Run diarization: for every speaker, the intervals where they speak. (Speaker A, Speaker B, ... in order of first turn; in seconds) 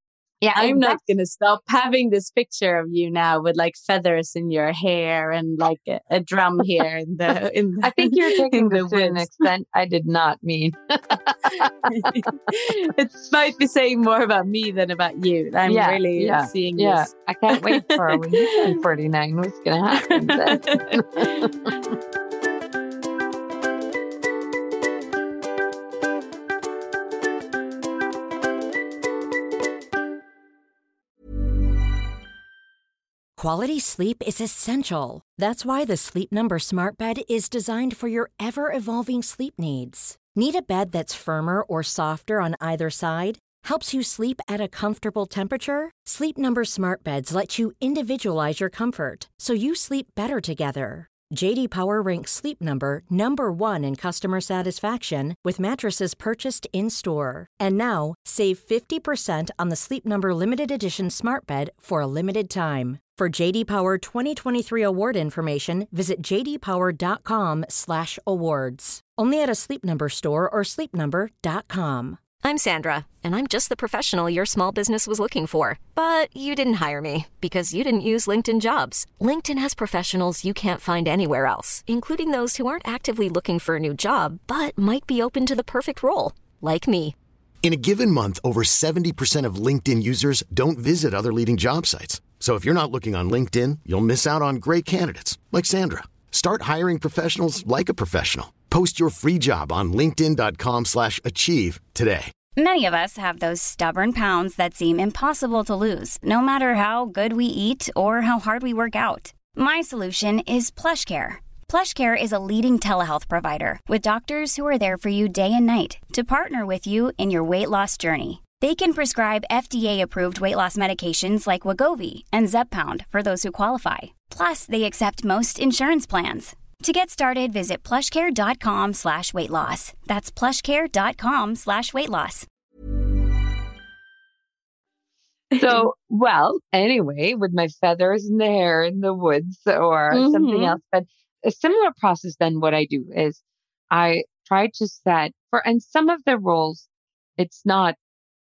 Speaker A: 0.4-1.0, 7.8-13.3, 15.7-21.7, 135.6-143.4, 143.9-146.9, 147.4-148.0
Speaker B: 0.6-9.4, 11.5-18.8, 20.0-21.8, 135.5-135.8, 140.1-140.8
Speaker C: 33.4-72.2
Speaker D: 72.4-87.2
Speaker E: 87.6-102.3
Speaker F: 102.6-132.5